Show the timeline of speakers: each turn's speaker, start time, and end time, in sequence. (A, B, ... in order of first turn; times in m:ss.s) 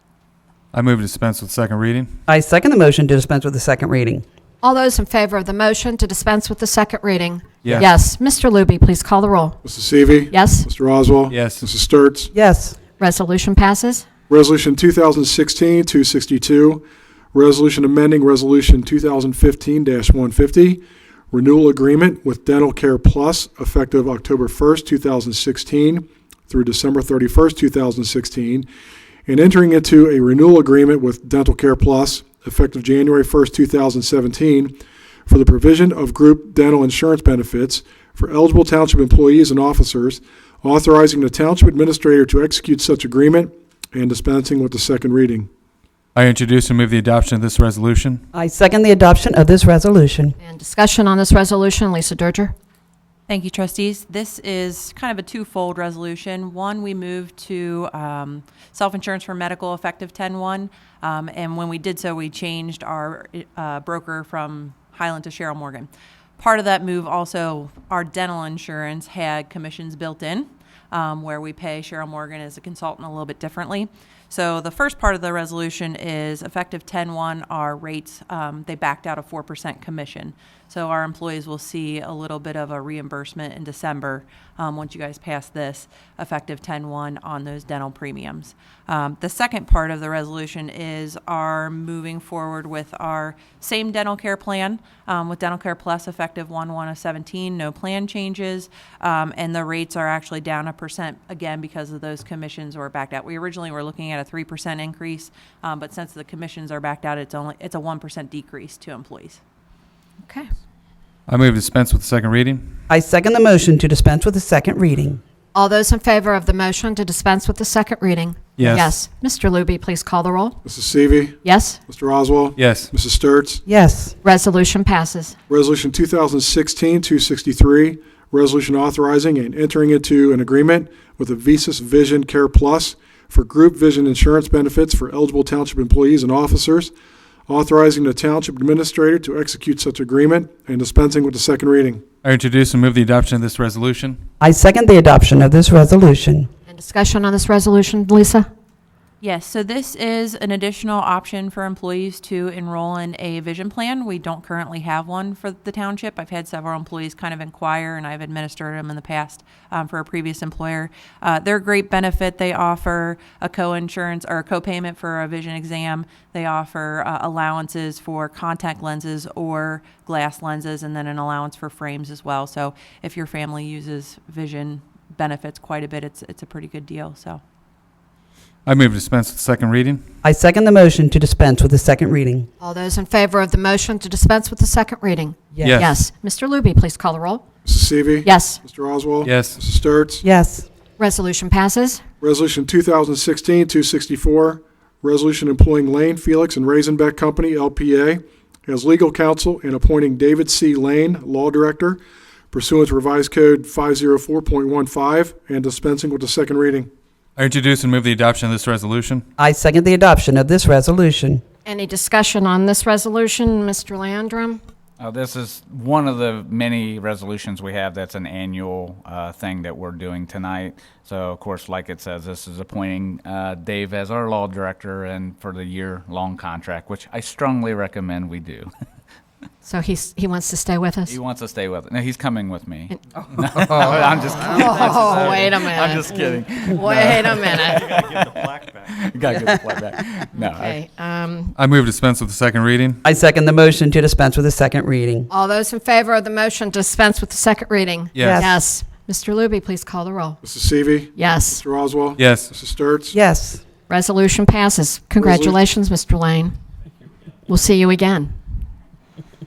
0:00.7-0:02.1 A
0:02.3-0:04.2 B
0:04.6-0:09.6 C
0:07.6-0:07.9 A
0:09.6-0:12.3 D
0:10.3-0:10.7 C
0:11.3-0:11.7 A
0:12.3-0:12.8 B
0:13.0-0:14.1 C
0:14.3-0:16.8 D
0:17.3-0:28.7 D
0:29.3-0:34.7 D
0:35.3-0:45.5 D
0:46.2-0:48.2 A
0:48.3-0:50.4 B
0:50.4-0:52.5 C
0:53.3-1:49.4 E
1:51.3-1:52.6 A
1:52.9-1:55.2 B
1:55.5-2:00.6 C
1:58.6-1:58.9 A
2:00.6-2:03.6 D
2:01.4-2:01.8 C
2:02.6-2:02.9 A
2:03.7-2:04.2 B
2:04.2-2:05.4 C
2:05.5-2:16.9 D
2:17.5-2:22.0 D
2:22.2-2:24.2 A
2:24.4-2:26.5 B
2:26.7-2:28.5 C
2:29.2-2:57.4 E
2:58.7-3:00.0 A
3:00.2-3:02.5 B
3:02.6-3:07.4 C
3:05.5-3:05.8 B
3:05.6-3:06.0 A
3:07.6-3:10.2 D
3:08.2-3:08.6 C
3:09.2-3:09.6 A
3:10.2-3:10.7 B
3:11.0-3:12.0 C
3:12.2-3:26.9 D
3:27.4-3:29.2 A
3:29.4-3:31.4 B
3:31.7-3:34.6 C
3:35.0-3:48.7 F
3:49.6-3:51.2 C
3:51.1-4:00.8 F
3:53.6-3:54.0 A
3:54.2-3:58.0 C
4:00.4-4:01.6 C
4:01.6-4:03.0 A
4:03.0-4:05.3 B
4:05.3-4:10.4 C
4:08.2-4:08.5 A
4:08.2-4:08.6 B
4:10.4-4:13.2 D
4:11.2-4:11.6 C
4:12.2-4:12.6 A
4:13.1-4:13.6 B
4:13.9-4:16.6 C
4:15.2-4:15.6 D
4:17.5-4:18.4 C